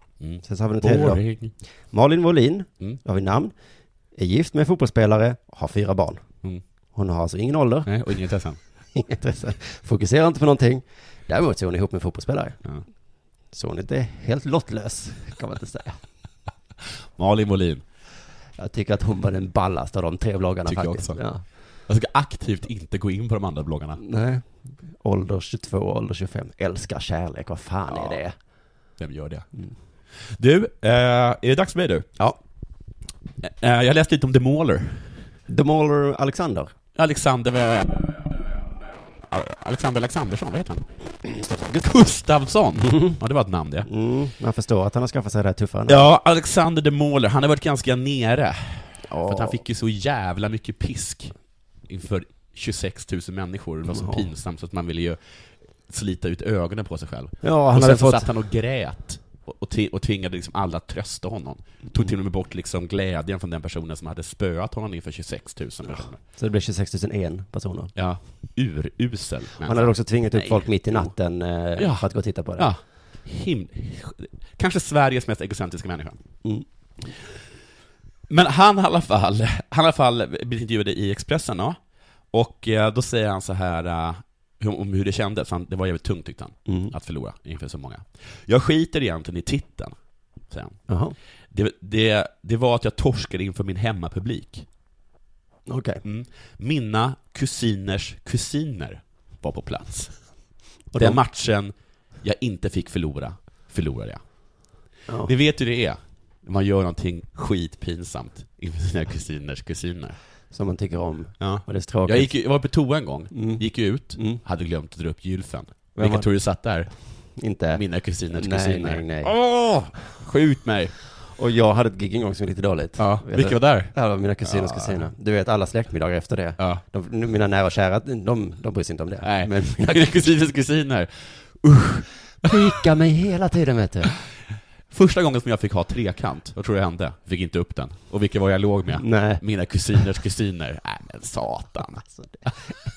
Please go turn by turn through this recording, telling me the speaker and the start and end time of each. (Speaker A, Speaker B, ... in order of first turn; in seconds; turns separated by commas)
Speaker A: 0.2-1.5, Speaker B: 0.5-1.2, Speaker B: 1.9-3.5, Speaker B: 4.2-6.2, Speaker B: 7.0-7.9, Speaker A: 7.9-8.6, Speaker B: 8.9-12.6, Speaker B: 13.5-16.0, Speaker A: 17.2-17.8, Speaker B: 18.6-21.4, Speaker A: 20.7-21.2, Speaker A: 21.9-24.0, Speaker B: 24.0-28.4, Speaker A: 27.9-28.2, Speaker A: 29.0-29.5, Speaker A: 30.1-32.1, Speaker A: 33.4-35.1, Speaker B: 35.5-36.7, Speaker A: 37.0-38.5, Speaker A: 39.3-40.9, Speaker A: 41.7-43.9, Speaker B: 42.8-43.2, Speaker B: 43.9-46.1, Speaker A: 45.9-51.3, Speaker B: 49.1-49.6, Speaker A: 51.9-55.2, Speaker B: 53.9-54.3, Speaker A: 55.9-66.1, Speaker B: 57.4-58.3, Speaker B: 65.9-67.9, Speaker A: 68.0-71.1, Speaker B: 69.6-72.7, Speaker A: 71.8-72.1, Speaker A: 72.6-76.2, Speaker A: 78.3-81.8, Speaker A: 82.3-90.0, Speaker B: 86.7-86.9, Speaker A: 90.5-90.8, Speaker B: 90.9-91.2, Speaker A: 91.5-94.7, Speaker B: 95.7-96.0, Speaker A: 96.0-100.1, Speaker B: 100.9-101.2, Speaker A: 101.0-104.2, Speaker A: 105.2-110.2, Speaker B: 110.5-112.3, Speaker A: 111.4-116.9, Speaker B: 113.3-114.4, Speaker B: 116.0-116.3, Speaker B: 117.4-119.3, Speaker A: 117.7-121.0, Speaker B: 121.4-130.2, Speaker A: 123.0-125.1, Speaker A: 129.2-132.6, Speaker B: 132.4-134.1, Speaker A: 134.9-142.0, Speaker B: 139.0-139.4